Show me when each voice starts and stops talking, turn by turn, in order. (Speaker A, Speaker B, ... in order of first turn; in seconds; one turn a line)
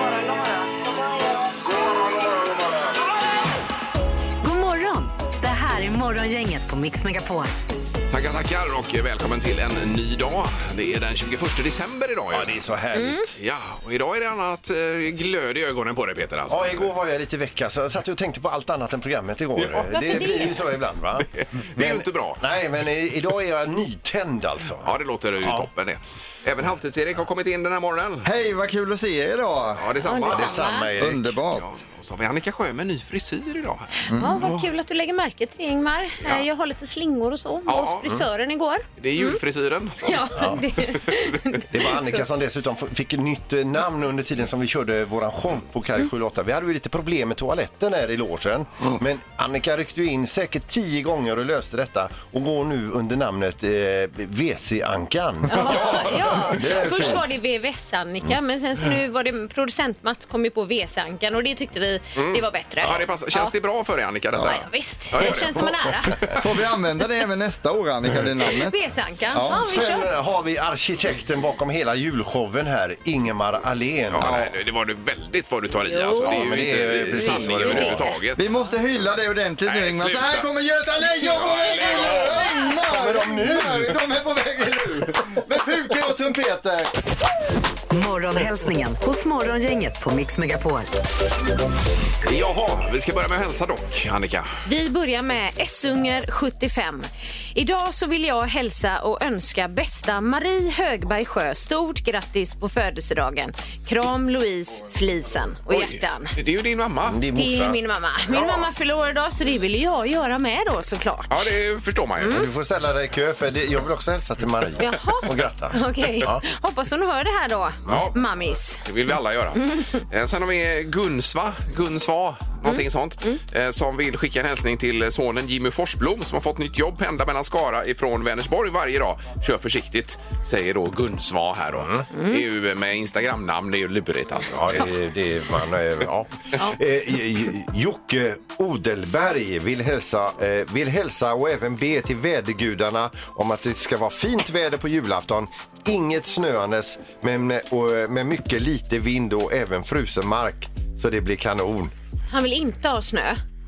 Speaker A: 4.4-7.5
Speaker B: 8.1-12.6
Speaker C: 12.3-13.3
Speaker D: 12.9-13.3
Speaker B: 13.4-16.9
Speaker C: 16.5-24.9
Speaker B: 19.6-19.9
Speaker D: 19.9-20.6
Speaker B: 21.3-22.4
Speaker B: 24.8-28.3
Speaker C: 25.4-25.7
Speaker E: 28.2-29.9
Speaker B: 29.8-30.6
Speaker D: 30.0-30.9
Speaker C: 30.3-31.3
Speaker E: 31.0-31.7
Speaker B: 31.5-34.6
Speaker E: 34.1-34.4
Speaker D: 34.1-39.4
Speaker B: 37.7-38.0
Speaker B: 39.0-40.4
Speaker D: 40.0-42.2
Speaker C: 40.3-40.6
Speaker C: 41.7-57.3
Speaker D: 55.5-63.5
Speaker B: 62.2-66.4
Speaker D: 64.4-66.2
Speaker E: 66.3-68.8
Speaker D: 68.5-70.1
Speaker E: 69.3-69.6
Speaker C: 69.5-74.3
Speaker B: 74.1-78.4
Speaker E: 74.2-74.5
Speaker D: 75.8-78.2
Speaker C: 76.2-78.1
Speaker E: 78.4-86.9
Speaker B: 79.7-80.5
Speaker B: 81.2-82.5
Speaker C: 82.9-84.0
Speaker A: 87.9-90.9
Speaker B: 92.2-94.5
Speaker D: 94.7-106.4
Speaker B: 105.7-107.3
Speaker C: 107.1-107.8
Speaker D: 107.3-111.5
Speaker B: 111.3-112.5
Speaker D: 112.2-112.5
Speaker C: 112.3-116.4
Speaker D: 114.8-118.8
Speaker B: 117.9-118.2
Speaker B: 118.8-134.8
Speaker D: 122.6-123.4
Speaker C: 131.7-132.0
Speaker D: 132.1-132.4
Speaker C: 134.5-151.9
Speaker D: 152.3-153.4